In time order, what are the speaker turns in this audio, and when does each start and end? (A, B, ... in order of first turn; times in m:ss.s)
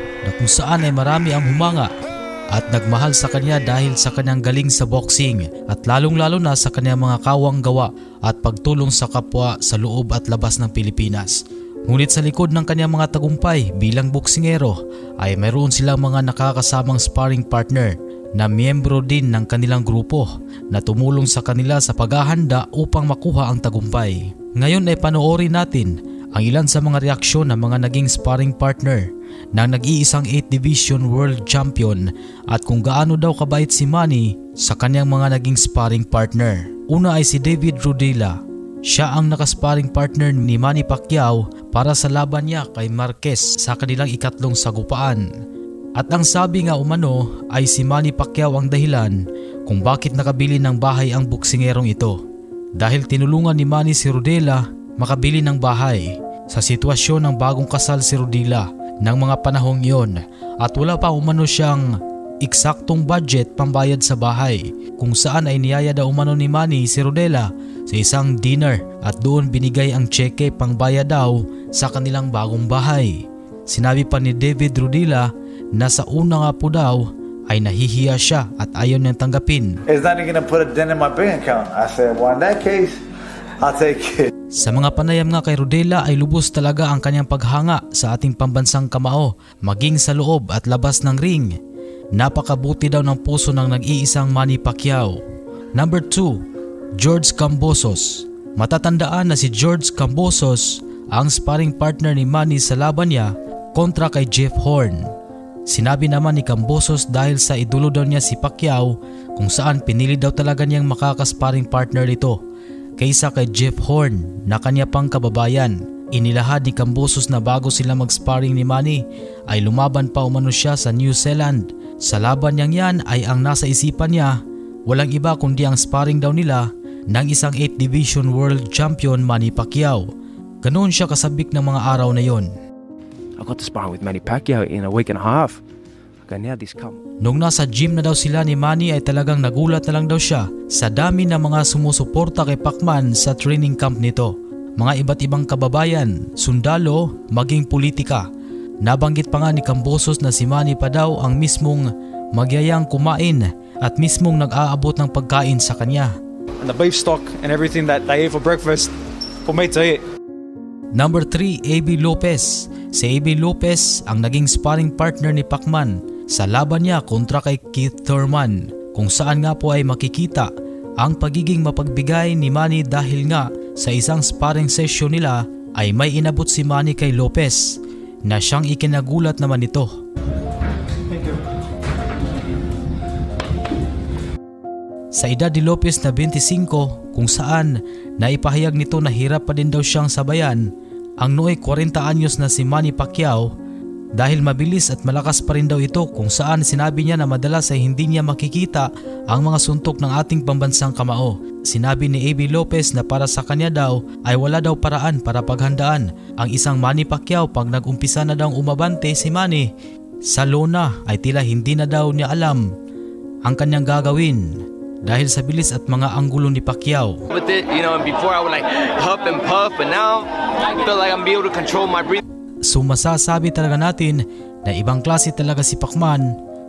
0:00.2-0:01.9 A
0:02.5-0:45.2 A
0:46.0-0:52.2 A
0:52.8-1:19.8 A
1:19.9-1:23.0 B
1:23.6-1:24.3 B
1:24.6-1:31.5 A
1:32.2-1:35.2 A
1:35.7-1:36.4 A
1:37.0-1:45.0 A
1:45.7-1:52.4 A
1:53.0-2:04.4 A
2:04.9-2:10.1 A
2:10.6-2:12.5 A
2:13.4-2:15.6 C
2:16.3-2:17.0 C
2:17.2-2:28.3 A
2:28.8-2:36.1 A
2:36.7-2:38.8 D
2:39.5-2:40.0 D
2:40.9-2:50.5 A
2:51.0-2:57.7 A
2:58.3-2:59.9 A
3:05.2-3:10.6 A
3:11.2-3:13.5 A
3:14.2-3:29.7 A
3:30.3-3:32.7 A
3:33.4-3:37.2 A
3:37.3-3:42.2 E
3:42.6-3:46.3 A